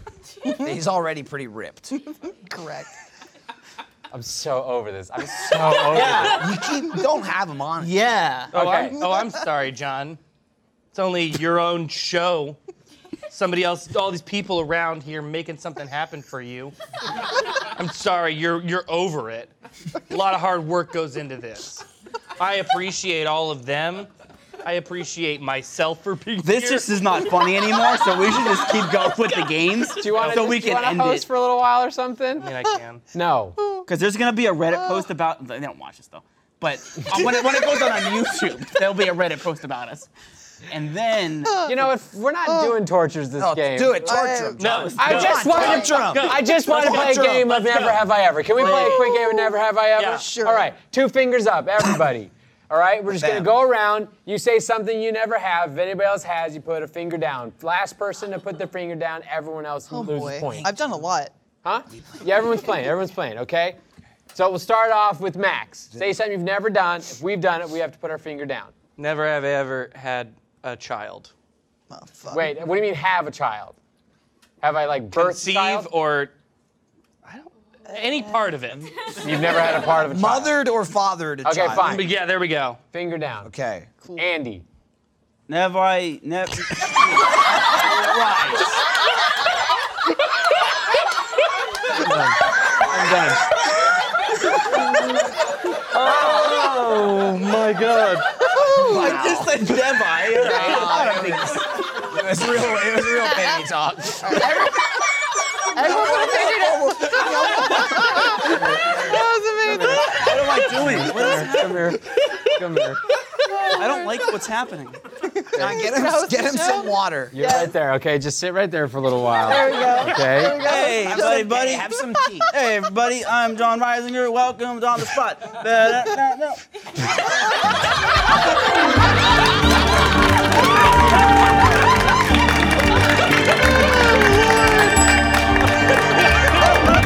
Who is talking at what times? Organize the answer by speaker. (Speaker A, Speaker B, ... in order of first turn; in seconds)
Speaker A: 0.6-2.0, 6.2-7.9, 43.4-47.6, 53.1-53.5, 79.9-82.1, 83.4-83.9, 87.7-88.7, 96.0-96.7, 98.5-99.6, 100.3-104.7, 105.7-109.2, 115.6-117.3, 119.5-120.0, 120.7-122.5
Speaker B: 2.3-2.9, 33.6-33.9, 41.5-41.7, 42.5-42.7, 44.0-44.6, 45.6-45.9, 48.6-49.6, 50.1-50.7, 59.9-61.3, 71.9-72.5, 103.3-103.6, 104.2-104.7, 105.7-110.5, 113.4-114.1, 115.4-117.7, 119.5-121.6
Speaker C: 4.1-6.5, 8.5-9.0, 30.0-32.5, 33.1-33.6, 41.6-44.2, 45.0-60.8, 61.6-63.8, 64.3-68.7, 72.3-73.8, 74.6-75.9, 79.2-80.6, 81.5-82.1, 82.9-83.5, 84.2-84.6, 92.0-93.5, 109.7-113.0, 115.6-116.0, 117.3-120.7
Speaker D: 5.9-6.4, 7.8-8.6, 26.4-31.3, 33.9-40.1, 40.7-41.7, 44.7-45.3, 85.5-87.3, 98.7-102.0, 110.0-112.0, 113.8-115.0, 120.6-121.9, 122.5-126.6
Speaker E: 8.5-10.2, 10.9-12.6, 13.3-16.7, 17.7-19.5, 20.1-21.9, 22.4-24.1, 24.6-26.9, 30.1-30.5, 32.4-33.0, 44.6-49.0, 50.0-50.3, 69.0-71.3, 75.1-76.3, 77.2-78.9, 81.8-82.8, 96.0-98.2